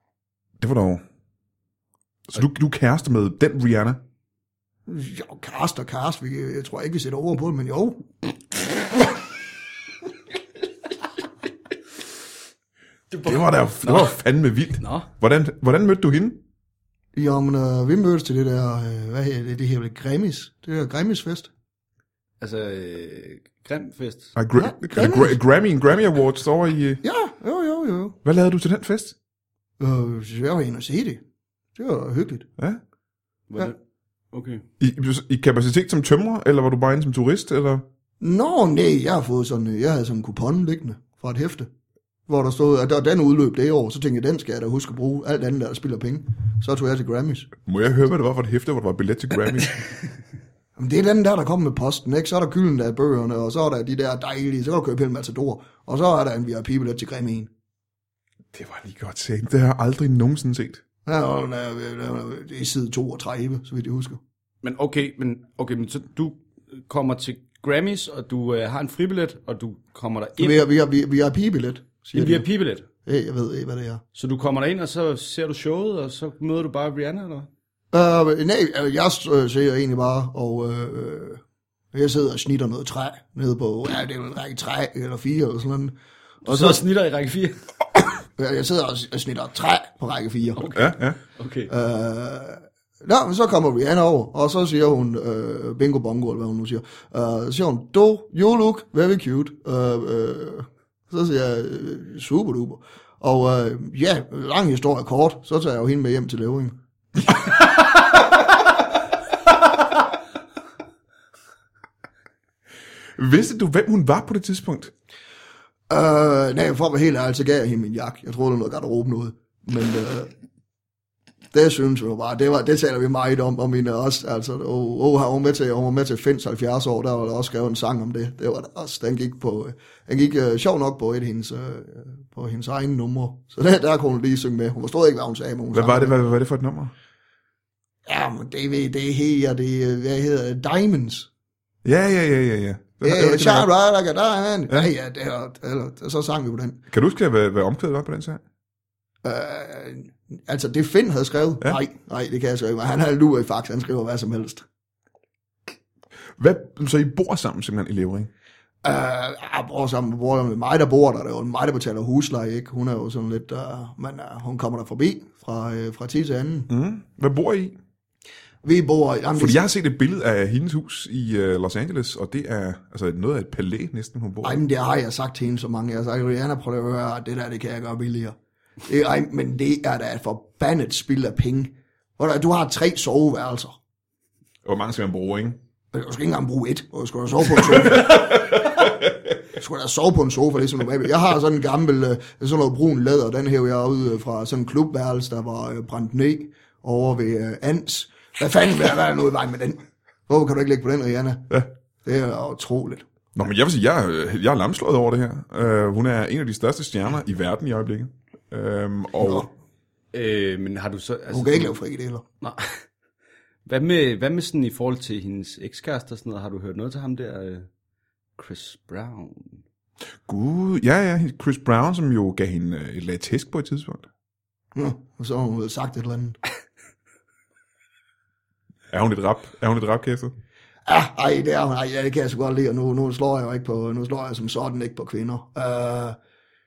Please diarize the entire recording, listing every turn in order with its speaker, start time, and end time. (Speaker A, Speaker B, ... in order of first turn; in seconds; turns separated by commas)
Speaker A: 0.6-1.0, Speaker A: 2.3-4.0, Speaker B: 4.9-8.0, Speaker C: 13.1-14.1, Speaker A: 13.2-16.4, Speaker C: 14.8-15.1, Speaker B: 17.1-21.5, Speaker C: 22.4-24.3, Speaker A: 24.4-27.0, Speaker B: 24.6-25.4, Speaker B: 27.0-28.2, Speaker A: 28.2-29.1, Speaker B: 29.8-31.2, Speaker B: 31.8-32.5, Speaker C: 33.5-33.8, Speaker C: 34.3-34.6, Speaker A: 34.8-37.8, Speaker B: 38.2-41.7, Speaker B: 42.3-47.5, Speaker A: 47.6-49.8, Speaker B: 50.8-57.5, Speaker A: 58.5-60.8, Speaker B: 61.0-64.2, Speaker C: 64.6-70.7, Speaker B: 70.4-72.5, Speaker C: 72.1-72.9, Speaker B: 73.0-74.0, Speaker C: 74.1-77.5, Speaker B: 77.9-81.4, Speaker B: 81.9-86.8, Speaker C: 86.4-87.6, Speaker B: 88.4-90.8, Speaker C: 90.6-91.7, Speaker A: 90.7-91.2, Speaker B: 91.7-106.8, Speaker A: 113.2-114.9, Speaker B: 115.9-120.3, Speaker B: 121.5-136.1, Speaker A: 135.7-136.9, Speaker B: 138.1-141.3, Speaker A: 141.8-143.7, Speaker B: 143.0-146.8, Speaker A: 146.9-148.4, Speaker B: 149.2-154.6, Speaker A: 156.4-158.3, Speaker B: 158.8-166.7, Speaker A: 166.7-167.8, Speaker B: 168.6-169.6, Speaker A: 169.3-174.6, Speaker B: 174.4-183.8, Speaker A: 184.6-185.6, Speaker B: 185.9-188.9, Speaker A: 187.9-188.9, Speaker B: 189.6-201.5, Speaker B: 202.0-203.0, Speaker A: 203.3-209.5, Speaker B: 209.2-209.5, Speaker C: 210.1-211.8, Speaker B: 211.3-212.2, Speaker C: 212.4-212.8, Speaker C: 213.7-217.7, Speaker C: 218.4-219.6, Speaker A: 220.3-224.1, Speaker B: 224.7-226.4, Speaker A: 228.9-230.3, Speaker B: 230.8-236.2